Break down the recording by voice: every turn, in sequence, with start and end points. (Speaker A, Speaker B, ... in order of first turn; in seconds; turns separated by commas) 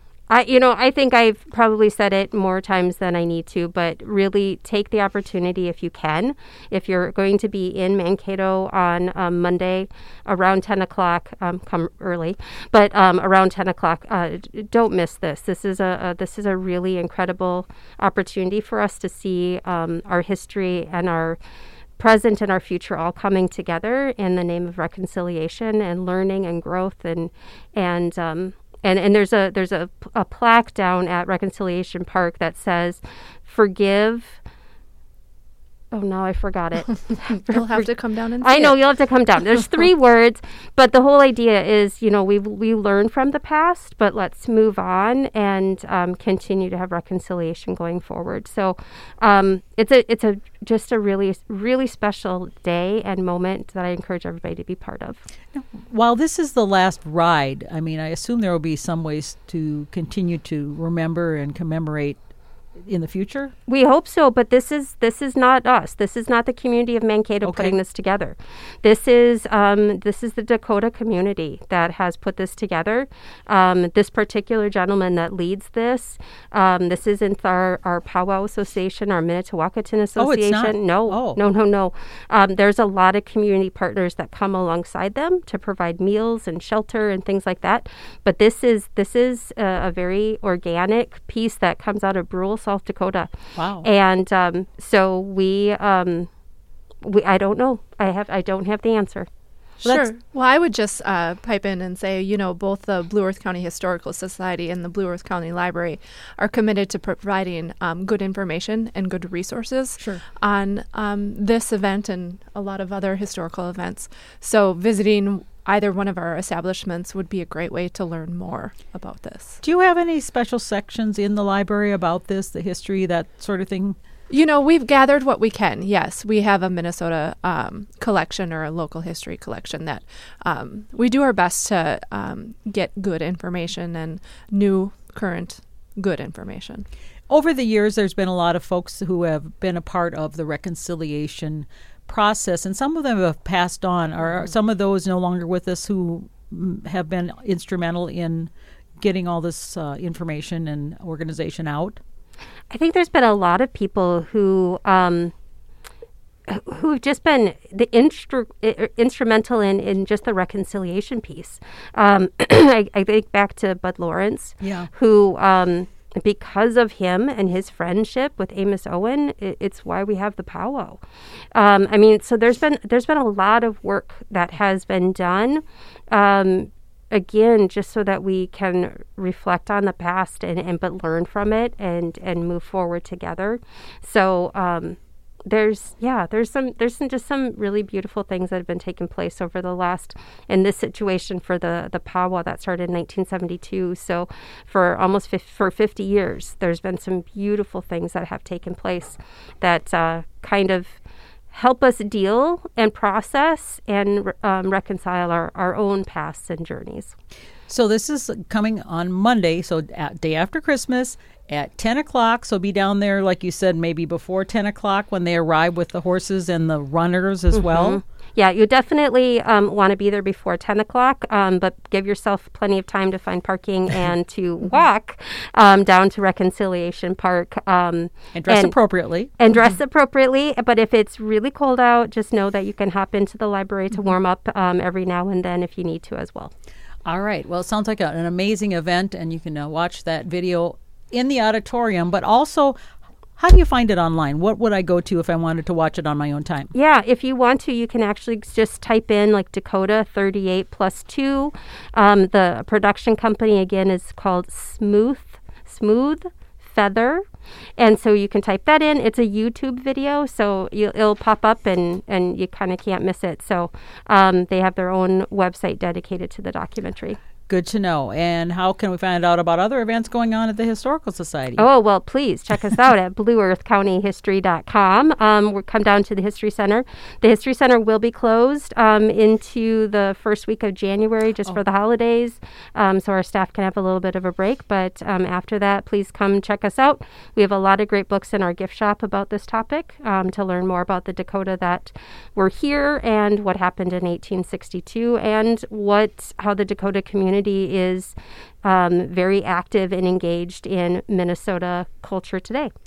Speaker A: 0.3-21.4, Speaker A: 22.0-34.4, Speaker A: 35.9-37.9, Speaker B: 37.5-38.8, Speaker A: 38.4-55.2, Speaker C: 55.5-62.2, Speaker C: 62.8-63.5, Speaker A: 63.7-93.3, Speaker C: 67.4-67.8, Speaker C: 80.2-81.4, Speaker C: 93.5-93.9, Speaker A: 93.8-96.3, Speaker A: 97.0-99.3, Speaker B: 99.8-119.6, Speaker C: 99.8-100.1, Speaker C: 119.6-124.0, Speaker B: 124.3-136.8, Speaker C: 137.3-152.0, Speaker A: 152.7-155.3, Speaker A: 156.5-171.0, Speaker C: 164.6-164.9, Speaker A: 171.5-201.0, Speaker A: 201.5-207.1, Speaker C: 207.7-218.0, Speaker A: 217.5-228.8, Speaker C: 228.3-229.3, Speaker A: 229.4-236.5, Speaker C: 237.1-242.8, Speaker C: 243.4-246.7, Speaker A: 246.7-257.2, Speaker A: 257.8-267.2, Speaker C: 267.5-271.6, Speaker A: 271.6-302.7